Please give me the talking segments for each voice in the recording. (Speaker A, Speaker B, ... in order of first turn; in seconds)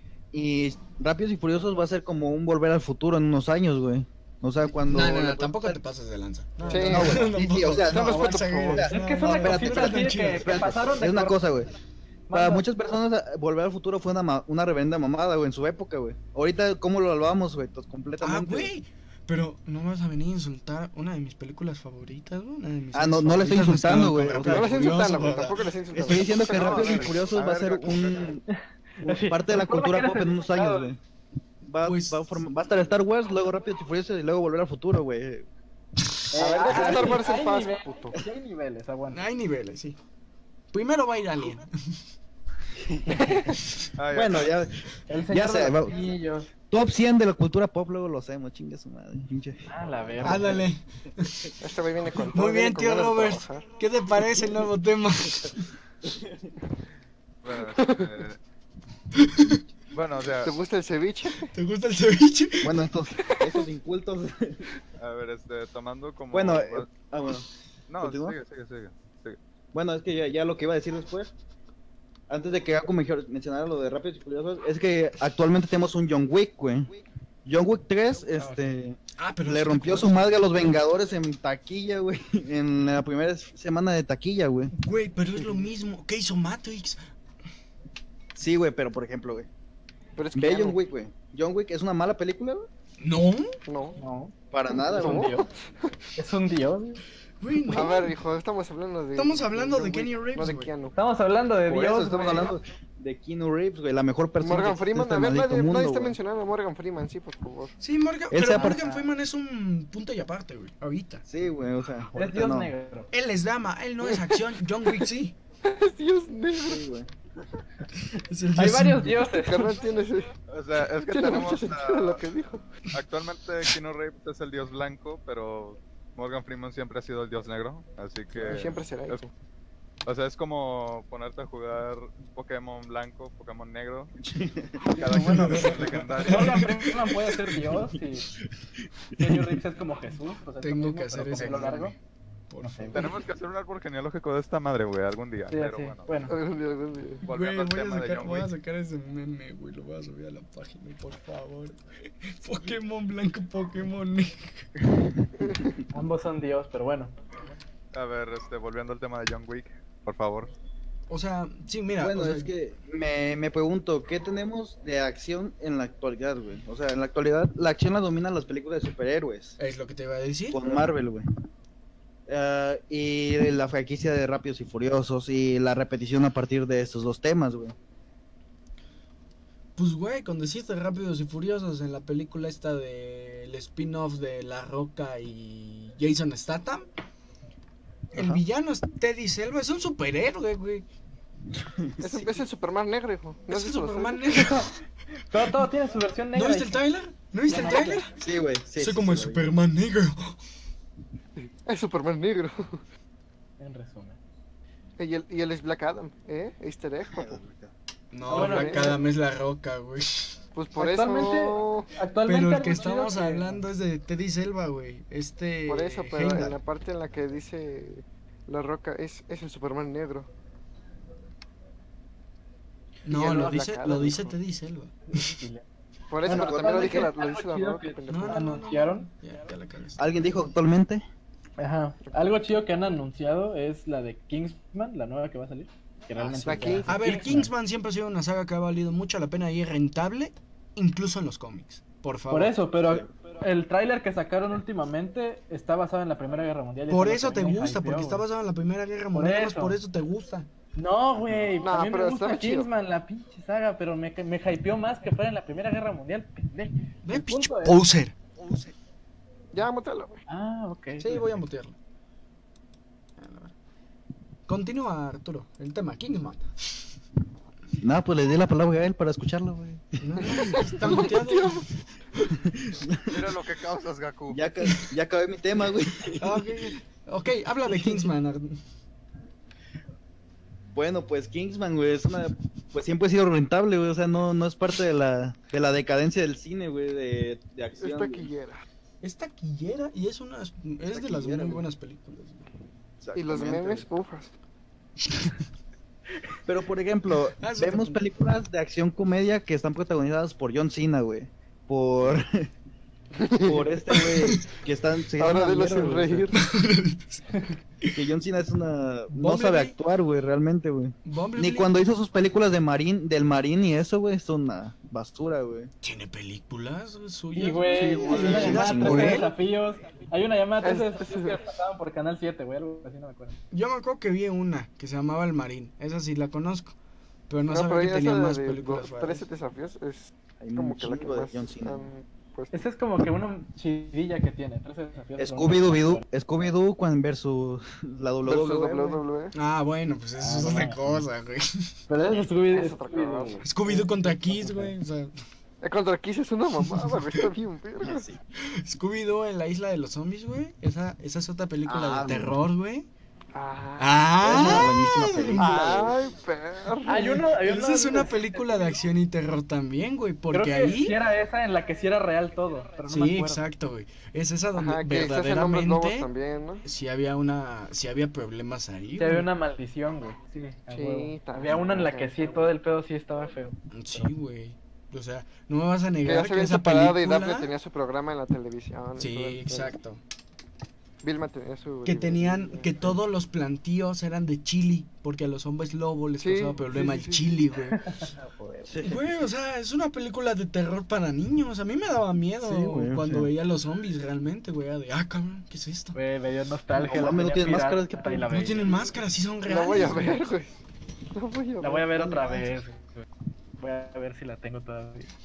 Speaker A: 0.3-5.8, 6.7-11.7, 12.3-18.7, 22.9-25.2, 25.9-28.4, 29.0-31.0, 31.6-35.5, 36.6-37.1, 43.0-43.2, 44.1-46.1, 46.7-50.6, 56.1-56.5, 62.6-64.7, 66.3-67.5, 68.0-68.4, 69.7-71.3, 72.3-76.9, 77.5-84.7, 88.3-89.5, 90.3-92.7, 94.5-95.4, 101.7-106.2, 108.3-108.8, 111.3-112.7, 116.6-117.1, 134.2-134.9, 139.2-139.6, 162.0-169.6, 170.5-171.3, 172.3-177.8, 188.1-188.4, 191.6-192.3, 198.2-199.5, 207.1-207.7, 226.2-227.1, 230.0-231.0, 236.2-236.9, 267.8-270.3, 272.4-273.3, 274.3-276.5, 277.7-278.1, 280.7-288.3, 290.9-291.7, 293.0-293.9, 296.4-302.5, 303.4-306.3, 307.9-315.7, 318.2-319.3, 330.4-331.9, 335.2-339.0, 347.8-348.2, 351.7-352.4, 354.2-356.0, 388.7-389.0, 392.4-393.3, 396.8-398.3, 401.9-402.5
Speaker B: 4.9-10.6, 18.2-25.7, 31.8-32.4, 39.1-40.0, 40.7-42.0, 50.2-51.6, 52.3-55.7, 59.1-59.6, 61.5-62.8, 79.2-80.3, 84.7-87.0, 93.0-93.5, 97.4-98.2, 99.2-100.7, 107.8-111.2, 113.1-115.4, 118.0-119.3, 135.0-136.9, 140.6-142.0, 142.5-143.1, 147.3-154.7, 161.1-162.5, 169.6-170.6, 179.8-186.9, 188.1-190.9, 193.5-194.8, 195.4-195.7, 196.3-198.1, 198.8-200.4, 208.1-210.4, 212.2-216.6, 223.0-225.4, 228.1-230.2, 236.9-242.6, 246.9-250.5, 257.0-258.7, 261.0-261.8, 263.2-263.5, 264.5-266.5, 270.0-271.7, 276.2-278.6, 289.0-292.5, 297.4-298.0, 304.0-304.5, 306.3-308.0, 309.1-309.8, 311.1-311.7, 315.8-319.3, 323.5-326.7, 327.3-329.2, 339.3-341.8, 343.4-345.1, 346.7-347.0, 348.4-352.9, 353.8-355.5, 357.4-361.0, 362.9-366.1, 366.6-369.3, 373.7-377.5, 379.0-380.0, 381.8-387.9, 388.8-396.0, 398.3-400.2
Speaker C: 6.6-7.2, 7.9-11.4, 12.3-12.7, 28.5-30.9, 36.3-39.2, 43.1-43.6, 45.1-46.5, 49.7-50.7, 94.0-94.3, 94.9-95.5, 96.2-97.0, 101.0-102.6, 108.5-109.1, 112.1-113.1, 118.5-119.8, 135.0-138.3, 139.2-142.0, 142.6-143.1, 145.5-146.3, 155.9-157.1, 194.3-194.7, 195.3-196.8, 197.5-198.1, 203.6-204.2, 208.3-209.0, 210.8-213.6, 225.1-225.7, 226.2-229.1, 231.6-237.5, 242.3-248.2, 249.1-249.8, 250.8-257.8, 260.3-261.3, 317.3-323.4, 332.5-336.1, 340.2-341.0, 341.9-344.7, 356.9-358.8, 360.3-363.4, 369.0-374.1, 387.7-388.8, 395.9-398.9, 401.6-403.1, 403.6-405.1
Speaker D: 6.7-7.2, 24.4-27.2, 36.4-38.2, 51.6-53.6, 57.6-58.1, 60.4-61.5, 63.3-63.6, 90.2-90.8, 93.7-94.0, 94.9-96.0, 97.7-101.0, 104.4-107.8, 115.6-116.8, 119.3-120.3, 121.1-122.6, 128.4-129.3, 146.3-147.2, 155.4-155.7, 192.0-194.5, 201.7-202.8, 205.0-207.4, 208.3-208.9, 210.6-211.9, 215.7-220.3, 223.1-224.3, 226.1-228.6, 236.4-236.9, 251.6-252.7, 259.5-260.2, 270.2-271.7, 287.8-288.6, 293.1-294.3, 303.2-303.7, 305.2-306.4, 317.7-318.6, 320.6-321.4, 327.5-332.6, 338.2-339.4, 342.4-343.4, 345.6-348.1, 353.3-354.7, 355.4-357.2, 364.6-366.6, 370.7-372.5, 376.1-379.8, 381.0-382.7, 386.2-387.4, 399.5-400.6, 401.1-401.9
Speaker E: 26.3-28.3, 44.0-44.5, 57.4-58.4, 59.9-60.5, 65.0-66.9, 67.9-69.4, 120.5-122.2, 122.9-129.2, 130.1-134.2, 134.9-136.9, 142.9-146.1, 147.2-148.5, 157.9-160.5, 273.1-274.4